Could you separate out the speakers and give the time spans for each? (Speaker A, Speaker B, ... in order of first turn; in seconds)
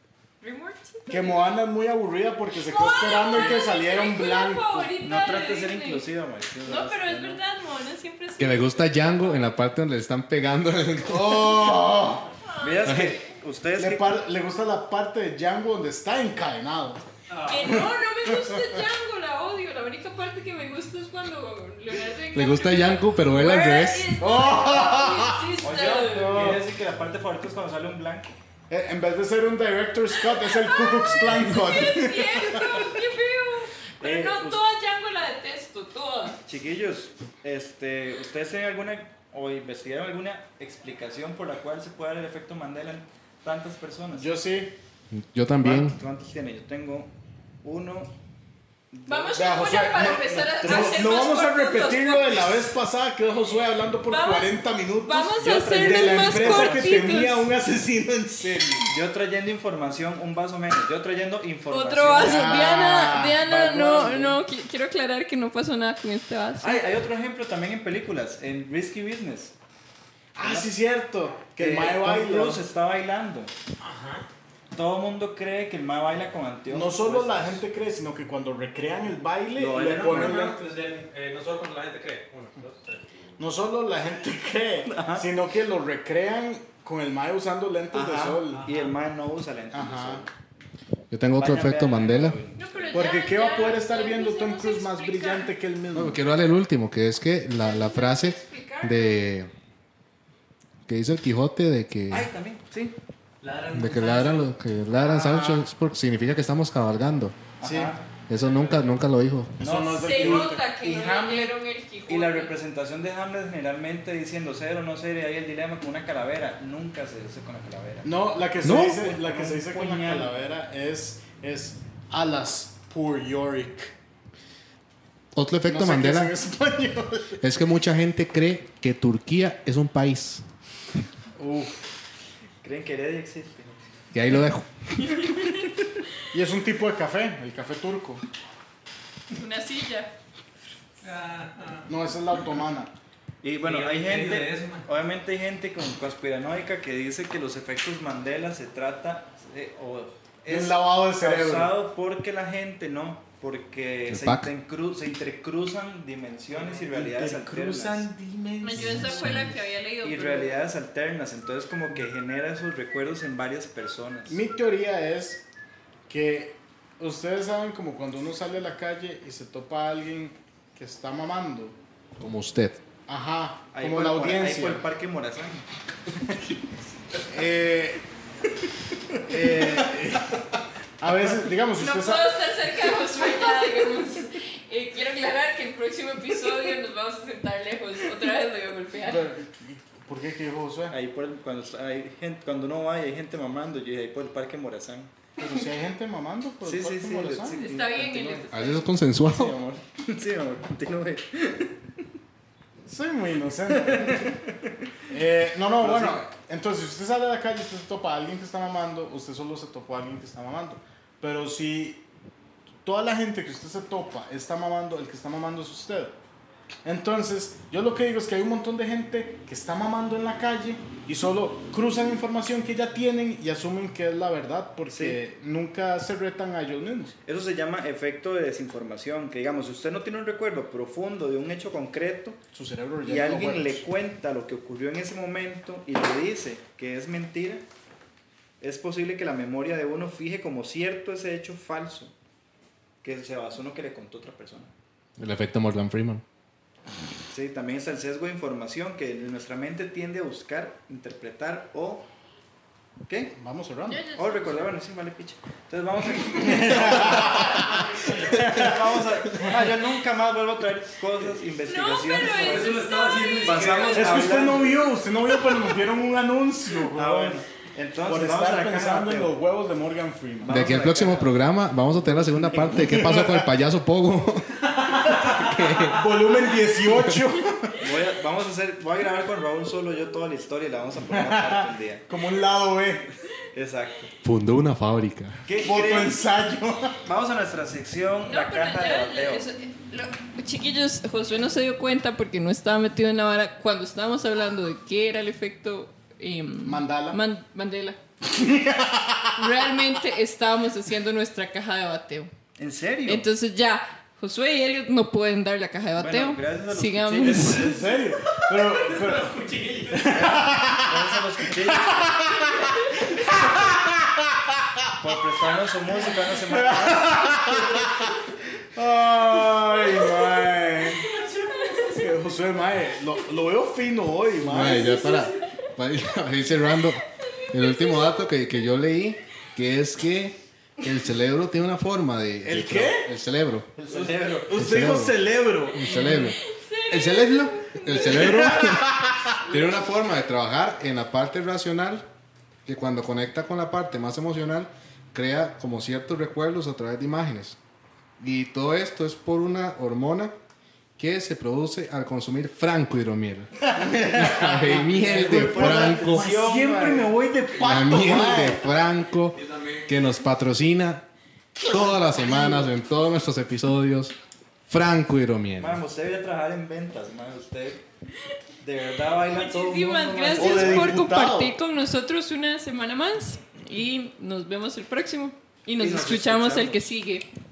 Speaker A: 0.4-1.5, 2.5-6.1, 6.7-9.4, 12.3-13.3, 17.4-26.5, 30.1-36.4, 49.1-52.6, 54.1-57.5, 61.7-66.8, 92.6-95.5, 97.6-99.3, 110.0-112.5, 135.0-135.7, 139.3-140.1, 158.6-160.6, 181.8-189.3, 197.5-198.9, 253.8-254.7, 256.7-258.6, 261.6-264.2, 288.3-298.0, 299.4-302.3, 303.1-307.7, 319.8-322.2, 324.6-325.7, 326.7-328.3, 335.8-338.6, 369.1-377.3
Speaker B: 1.1-4.9, 11.1-12.3, 13.7-17.0, 17.7-18.6, 24.2-26.6, 28.7-32.8, 44.1-44.8, 49.3-58.9, 62.1-64.4, 70.4-72.6, 76.7-80.8, 83.4-88.6, 89.7-90.2, 92.9-96.2, 105.0-105.6, 107.6-108.0, 109.6-110.6, 118.0-123.9, 125.7-127.4, 131.4-131.9, 136.3-138.2, 141.9-142.9, 150.5-151.8, 156.7-159.3, 164.3-165.4, 166.1-171.8, 173.1-174.8, 177.3-178.0, 179.3-180.4, 181.0-182.3, 189.1-190.9, 195.4-197.6, 202.9-204.3, 205.1-212.0, 212.8-216.2, 216.8-227.2, 232.5-233.9, 253.3-254.0, 256.4-259.6, 263.9-267.4, 268.0-270.6, 272.1-273.5, 275.9-277.9, 281.1-283.1, 285.6-287.0, 296.6-297.2, 298.2-299.5, 307.6-309.4, 309.9-314.2, 316.4-318.1, 318.8-321.1, 321.7-325.0, 332.4-333.1, 333.9-336.2, 337.9-339.4, 353.7-358.8, 361.6-362.7, 370.3-371.6
Speaker C: 5.0-7.4, 12.6-14.2, 25.6-28.4, 34.0-34.6, 36.5-44.3, 45.6-47.1, 47.6-48.1, 48.9-49.4, 50.3-51.1, 55.4-57.4, 58.9-62.8, 63.4-64.2, 66.6-69.5, 70.4-70.7, 71.6-73.5, 74.7-77.6, 79.6-80.6, 84.8-85.3, 87.9-90.3, 91.4-93.2, 102.1-103.0, 107.6-108.1, 109.6-111.5, 112.1-120.3, 132.6-133.8, 143.4-158.1, 160.0-164.4, 173.7-176.6, 179.4-179.8, 190.9-195.1, 196.6-198.4, 199.3-201.8, 203.7-204.8, 205.8-206.3, 224.9-225.2, 227.2-232.4, 233.0-237.6, 238.6-242.1, 243.0-244.7, 247.3-252.1, 253.1-253.4, 254.2-262.8, 263.4-264.9, 266.9-269.4, 270.4-271.5, 272.3-272.7, 277.8-282.1, 283.5-284.1, 285.4-286.2, 287.0-289.5, 302.6-303.3, 306.0-307.8, 310.1-312.4, 315.0-317.4, 333.8-334.6, 354.7-357.3, 365.6-367.8, 368.6-371.1, 375.8-376.8
Speaker D: 8.4-11.7, 12.9-13.1, 22.3-24.1, 45.1-46.0, 91.1-92.4, 95.9-99.5, 100.9-102.3, 103.7-107.4, 108.3-109.6, 118.6-119.0, 125.3-126.3, 127.4-130.4, 134.1-135.1, 154.1-154.5, 158.8-159.5, 172.2-172.8, 198.5-199.6, 245.2-246.2, 270.5-277.3, 284.2-285.4, 324.4-333.7, 334.5-338.9, 339.5-342.1, 342.7-347.6, 348.2-350.3, 351.0-353.5, 354.1-356.3, 357.6-361.1, 361.6-364.1, 364.7-365.8
Speaker E: 17.3-17.8, 73.8-74.3, 79.8-83.2, 88.5-89.0, 103.4-104.5, 108.3-108.9, 141.0-141.9, 143.6-144.9, 262.4-264.3, 274.7-276.0, 307.2-310.2, 359.3-359.9